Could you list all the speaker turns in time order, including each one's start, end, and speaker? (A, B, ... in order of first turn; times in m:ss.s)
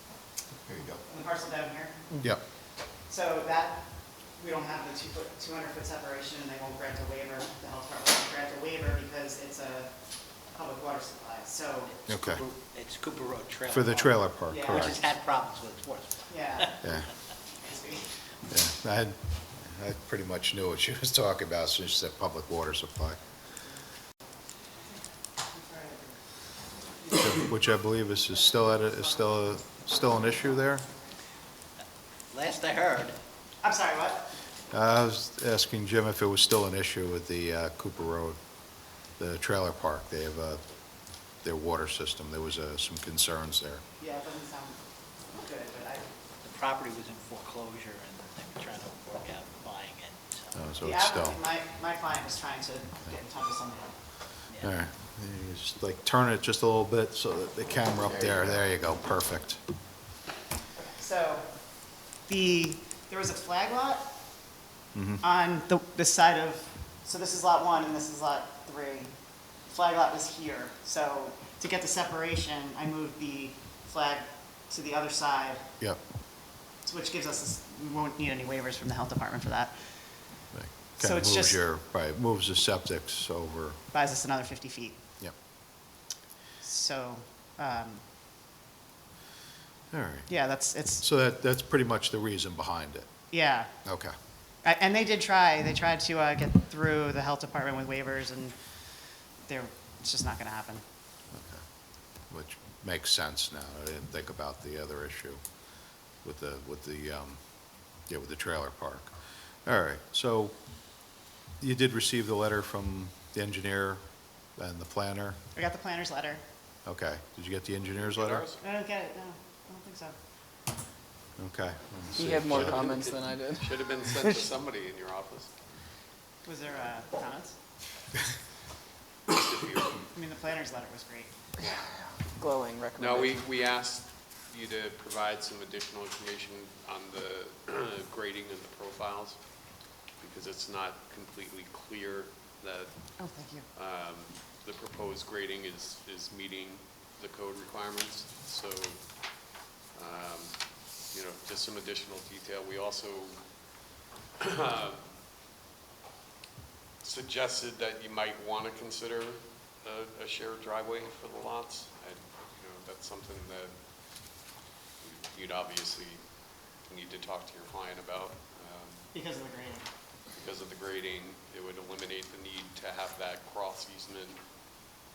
0:01.1-0:11.9 A
0:12.0-0:16.9 B
0:12.1-0:12.4 C
0:13.7-0:15.0 C
0:14.5-0:14.9 A
0:16.3-0:16.8 A
0:16.8-0:17.1 C
0:17.6-0:18.1 A
0:18.5-0:23.2 C
0:25.6-0:26.0 A
0:27.2-0:30.9 C
0:32.3-0:33.2 B
0:33.6-0:34.3 A
0:34.7-0:43.8 C
0:44.0-0:46.1 A
0:46.4-0:50.6 B
0:50.5-0:51.4 C
0:50.8-0:54.0 A
0:54.5-0:54.8 B
0:54.6-0:59.6 C
1:00.8-1:04.5 A
1:04.9-1:05.2 C
1:05.2-1:15.7 A
1:16.8-1:20.4 A
1:20.5-1:23.8 C
1:21.0-1:21.6 A
1:23.9-1:25.0 A
1:26.6-1:28.0 A
1:29.9-1:33.3 C
1:30.3-1:31.0 A
1:33.3-1:33.8 A
1:33.8-1:34.1 C
1:34.6-1:40.8 A
1:41.3-1:55.4 C
1:55.6-1:56.4 A
1:56.8-1:58.4 C
1:58.0-1:58.6 D
1:58.6-2:00.2 A
2:01.4-2:02.8 C
2:02.1-2:03.8 E
2:02.6-2:05.7 D
2:06.4-2:07.6 A
2:09.3-2:10.1 D
2:10.1-2:11.3 A
2:11.6-2:13.5 E
2:13.0-2:35.1 D
2:23.2-2:23.7 A
2:37.0-2:43.7 D
2:45.0-2:49.1 D
2:49.1-2:49.9 A
2:50.3-2:54.5 D